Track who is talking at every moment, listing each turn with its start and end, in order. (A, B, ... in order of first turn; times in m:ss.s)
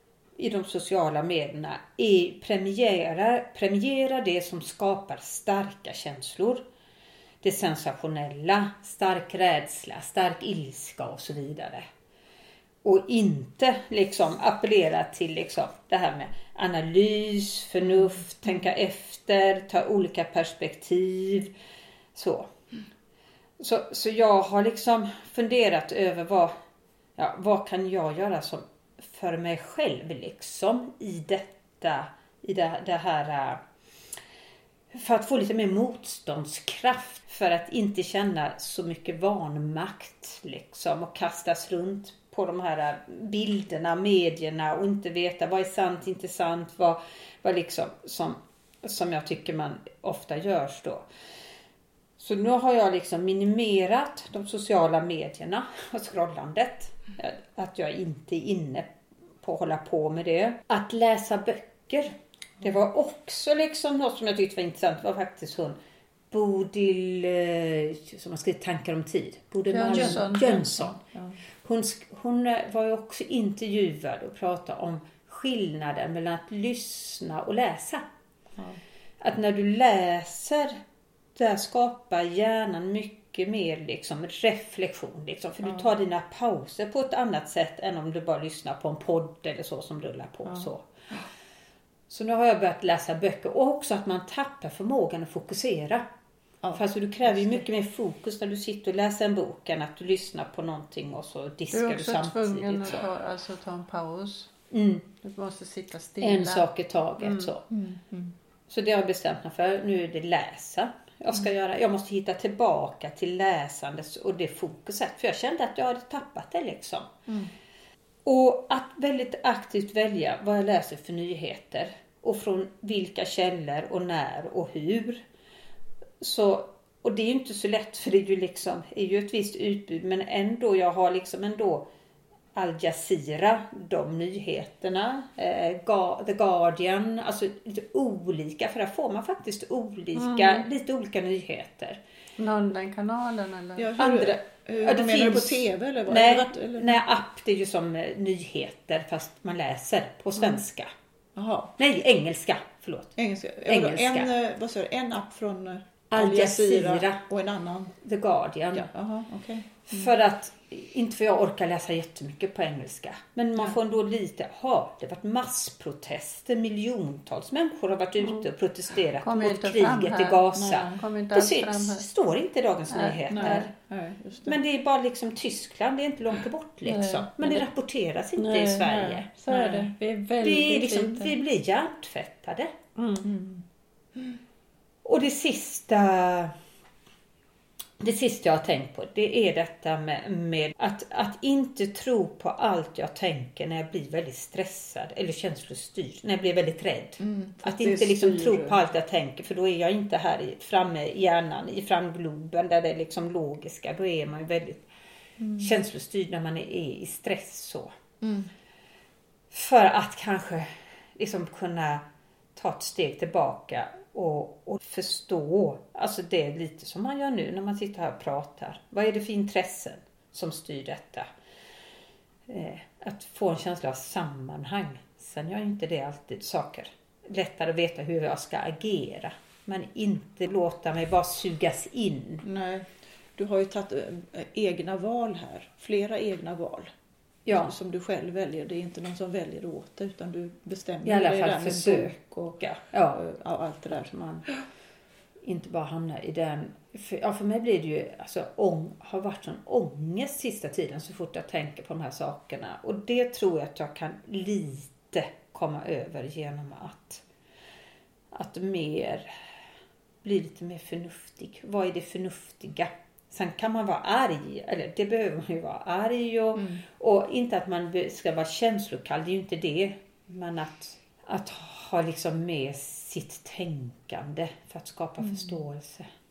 0:00.4-0:06.6 A
0:07.4-0:11.8 A
0:12.8-0:21.5 A
0:22.1-0:22.5 A
0:23.6-0:26.5 A
0:27.2-0:33.6 A
0:34.9-0:51.0 A
0:52.2-0:58.9 A
0:59.4-1:05.8 A
1:06.3-1:11.0 A
1:09.7-1:10.7 B
1:09.9-1:11.4 C
1:11.6-1:18.1 A
1:19.2-1:20.8 A
1:21.3-1:30.8 A
1:25.6-1:25.9 C
1:32.1-1:36.1 A
1:36.6-1:37.6 C
1:36.7-1:43.0 A
1:41.7-1:44.5 B
1:44.7-1:45.0 A
1:45.2-1:46.6 B
1:46.2-1:47.6 A
1:47.2-1:47.5 B
1:47.7-1:48.3 C
1:48.7-1:57.1 A
1:58.2-2:05.2 A
2:06.2-2:11.9 A
2:12.5-2:22.0 A
2:20.2-2:20.6 B
2:22.4-2:24.1 B
2:23.8-2:27.0 C
2:24.0-2:30.9 A
2:31.3-2:31.7 C
2:31.8-2:33.1 A
2:33.2-2:37.9 C
2:33.6-2:34.3 A
2:36.1-2:37.2 A
2:38.0-2:38.9 A
2:38.7-2:40.1 C
2:39.9-2:53.7 A
2:49.2-2:50.4 B
2:50.5-2:51.0 C
2:51.0-2:52.0 B
2:52.9-2:53.2 B
2:53.2-2:54.6 C
2:54.4-3:02.7 A
2:56.8-2:57.6 B
2:58.4-3:01.4 B
3:03.0-3:03.3 B
3:03.2-3:04.4 C
3:05.0-3:06.5 A
3:08.0-3:24.8 A
3:17.2-3:18.8 C
3:25.4-3:25.7 C
3:25.6-3:27.9 A
3:28.2-3:28.5 C
3:29.5-3:41.2 A
3:42.5-3:52.4 A
3:52.4-3:56.9 C
3:57.4-3:57.7 A
3:57.5-4:02.6 C
4:01.0-4:03.2 A
4:03.1-4:04.1 C
4:03.9-4:04.6 A
4:05.4-4:17.2 A
4:18.3-4:19.3 A
4:20.2-4:36.1 A
4:26.5-4:26.8 C
4:35.2-4:35.6 C